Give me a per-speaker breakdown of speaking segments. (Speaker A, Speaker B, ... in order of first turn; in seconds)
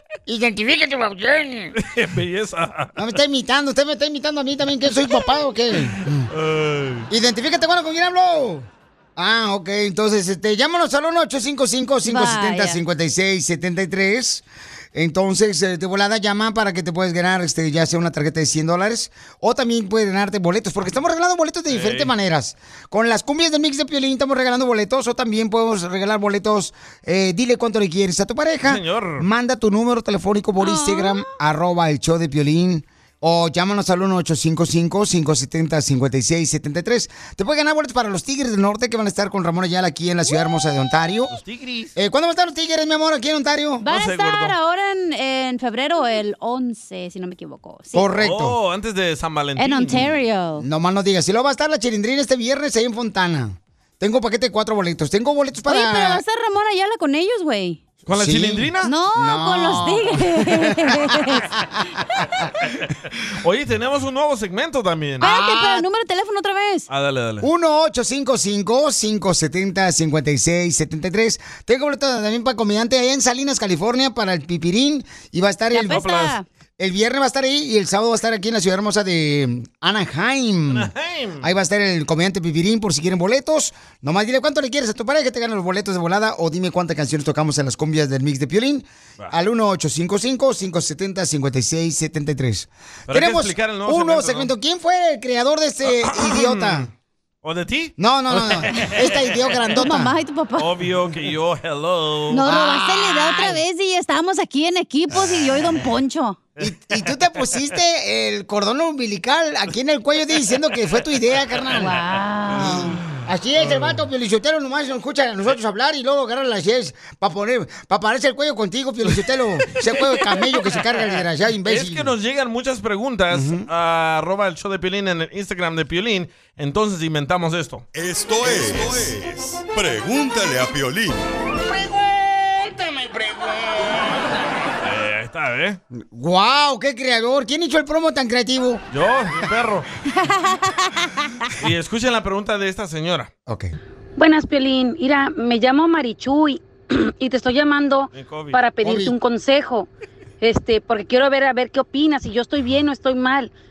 Speaker A: 0.3-1.8, 3.0-6.3, 7.1-41.4, 41.9-43.8, 47.9-48.5, 50.6-56.2, 58.1-61.4, 65.2-65.8, 67.4-96.9, 98.0-100.1, 102.4-103.6, 106.6-112.0, 112.5-122.1, 123.3-123.7, 135.9-138.8, 143.5-143.7, 148.8-149.1
Speaker B: 1.8-2.9, 6.3-7.1, 21.7-22.1, 28.6-29.2, 41.3-41.9, 43.9-44.5, 48.2-50.1, 58.0-58.9, 63.4-65.2, 66.9-67.5, 80.7-81.5, 93.1-94.5, 95.8-96.9, 97.4-99.5, 100.6-102.5, 112.5-114.0, 121.6-127.8, 128.5-129.1, 134.8-135.8, 138.9-139.9, 141.6-143.3, 148.1-148.6
Speaker C: 12.1-12.8, 30.6-31.3, 43.8-48.0, 49.6-50.6, 55.7-57.8, 58.8-61.4, 65.2-66.9, 75.7-76.4, 99.8-100.7, 102.3-106.4, 111.8-113.0, 140.2-141.3
Speaker D: 127.9-131.2
Speaker E: 144.2-149.9, 150.4-153.5